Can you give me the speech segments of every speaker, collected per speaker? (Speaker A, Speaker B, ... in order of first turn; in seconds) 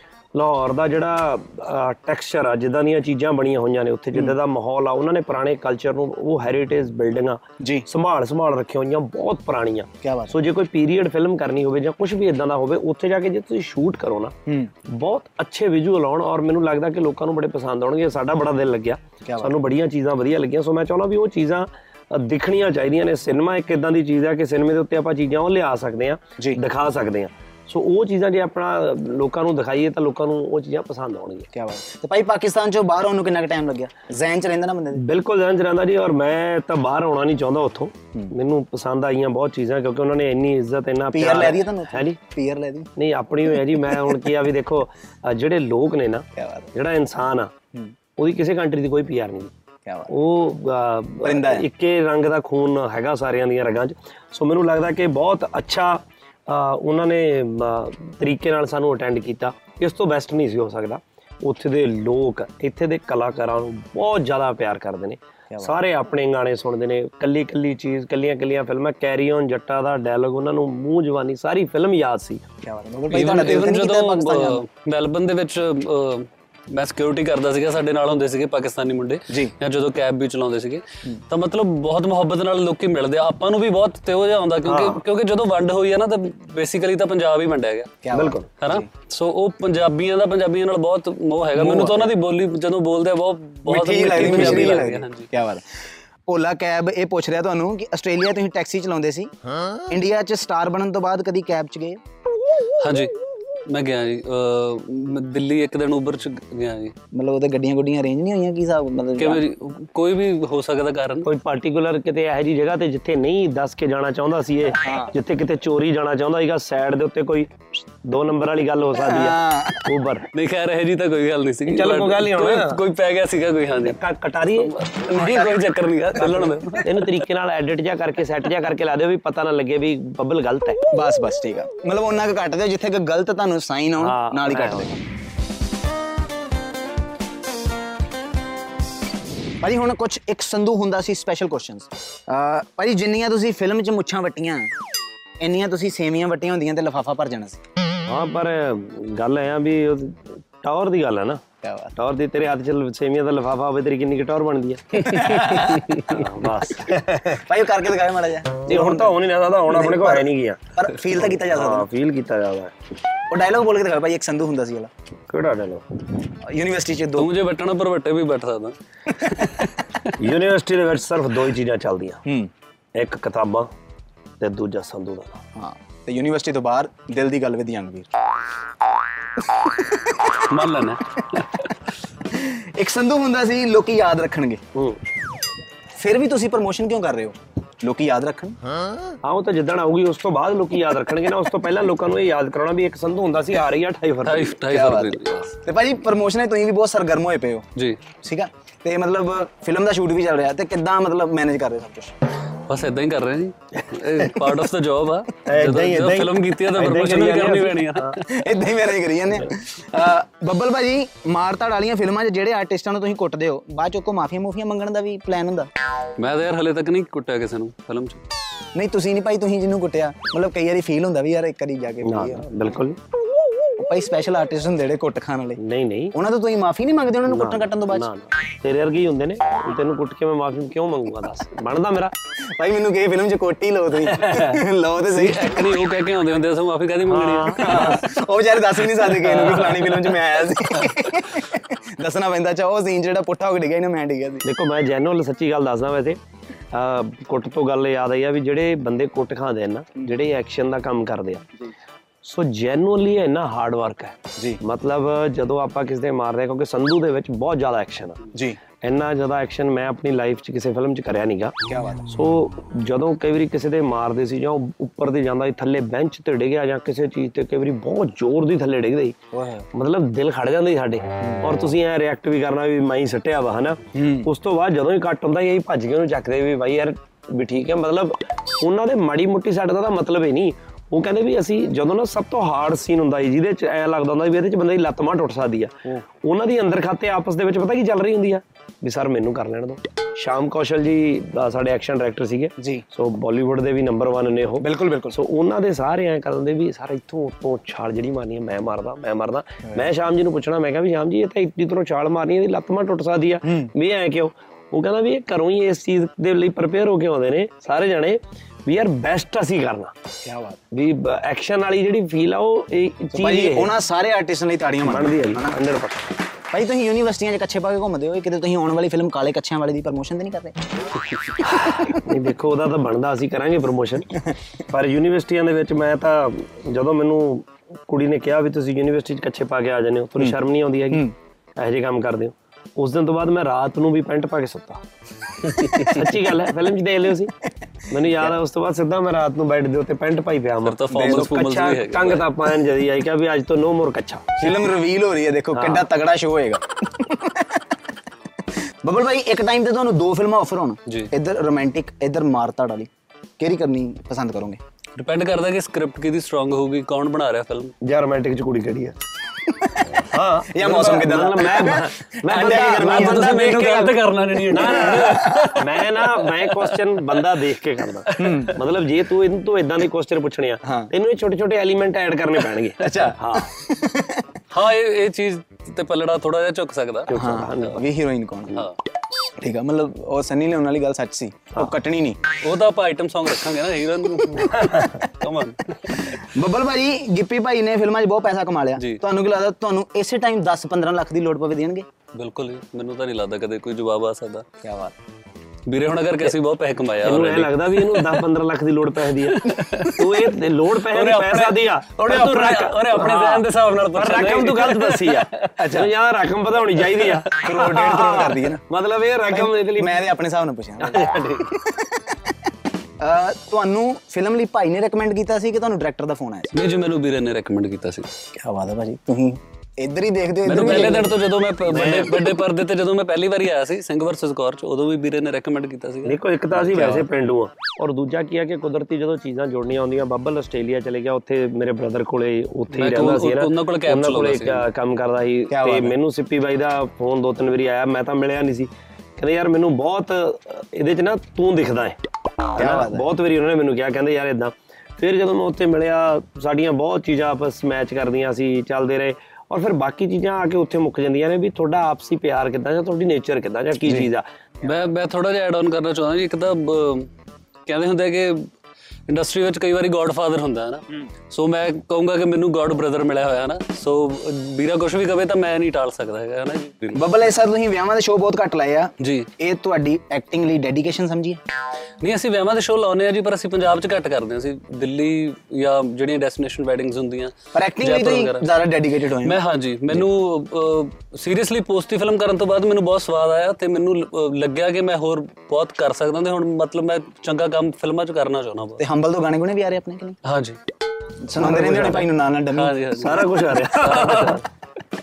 Speaker A: 0.3-31.5, 35.0-42.2, 43.0-47.5, 48.2-49.5, 50.1-72.4, 84.7-85.0, 88.1-88.5, 94.2-94.8, 111.2-120.3, 121.7-122.8, 123.8-124.8, 126.3-130.8, 134.0-135.0, 148.1-151.4, 152.0-157.4, 158.7-162.7, 165.3-165.8, 170.2-172.2, 172.9-173.7, 174.4-175.4, 184.7-185.0, 189.2-194.6, 203.9-204.3, 205.5-208.2, 222.0-223.0, 225.6-226.2, 227.3-232.2, 234.0-234.6, 237.1-238.0, 244.4-246.2, 246.7-251.5, 252.2-258.2, 258.8-269.2, 269.7-309.9, 310.7-313.7, 314.8-316.2, 321.4-334.8, 335.4-337.3, 337.9-344.6, 345.5-345.9, 357.8-359.0, 360.0-373.5, 377.1-377.9, 384.4-384.9, 397.0-410.1, 410.8-411.5, 420.5-420.9, 421.7-422.3, 426.1-454.3, 491.4-492.1, 492.9-494.4
Speaker B: 7.6-7.9, 10.0-10.4, 19.2-19.6, 31.5-35.0, 41.1-42.9, 43.6-44.1, 46.4-46.7, 49.9-50.1, 51.2-51.7, 65.5-65.8, 72.6-74.6, 88.0-88.9, 91.6-92.1, 93.7-95.6, 96.3-102.0, 107.1-109.4, 114.8-115.1, 119.0-119.9, 125.2-125.5, 130.9-135.0, 139.6-144.7, 145.4-147.6, 151.6-151.9, 155.0-156.3, 157.3-161.9, 163.3-164.9, 166.4-167.3, 172.2-172.5, 175.6-178.1, 179.4-180.5, 182.3-184.6, 186.0-188.6, 194.7-197.7, 198.2-202.1, 208.3-215.7, 218.8-222.5, 223.8-225.6, 226.1-228.1, 232.5-235.7, 237.6-244.4, 258.3-258.6, 261.7-262.1, 269.3-269.7, 273.9-274.3, 292.6-292.9, 294.6-295.2, 303.4-303.7, 310.2-310.6, 313.1-315.6, 316.5-320.6, 321.4-322.0, 340.9-341.2, 344.4-347.6, 348.8-354.6, 359.5-363.9, 364.9-365.5, 368.2-368.6, 370.6-370.9, 372.8-374.3, 377.1-378.7, 379.4-382.3, 385.9-391.9, 394.6-394.9, 405.6-405.9, 407.4-408.6, 409.3-411.1, 411.6-412.0, 413.0-416.5, 418.3-421.1, 435.5-435.9, 442.6-443.1, 466.9-471.4, 477.5-479.4, 488.8-490.2, 491.2-492.8
Speaker C: 73.1-87.9, 88.6-95.3, 102.8-103.1, 103.7-107.0, 109.2-111.3, 120.3-124.0, 124.6-127.2, 167.2-170.1, 180.5-181.7, 194.2-195.5, 202.7-208.4, 216.2-218.2, 235.1-238.1, 239.0-240.2, 335.5-335.9, 340.6-342.3, 355.0-357.8, 362.4-367.2, 368.1-368.6, 374.5-377.2, 382.4-386.2, 392.1-394.5, 395.7-398.2, 399.2-405.5, 406.8-407.4, 416.5-418.1, 420.5-427.1, 432.7-434.6, 454.6-457.1, 457.7-458.5, 459.1-467.0, 469.0-469.3, 472.0-478.5, 479.2-488.8, 490.2-490.6, 492.5-494.4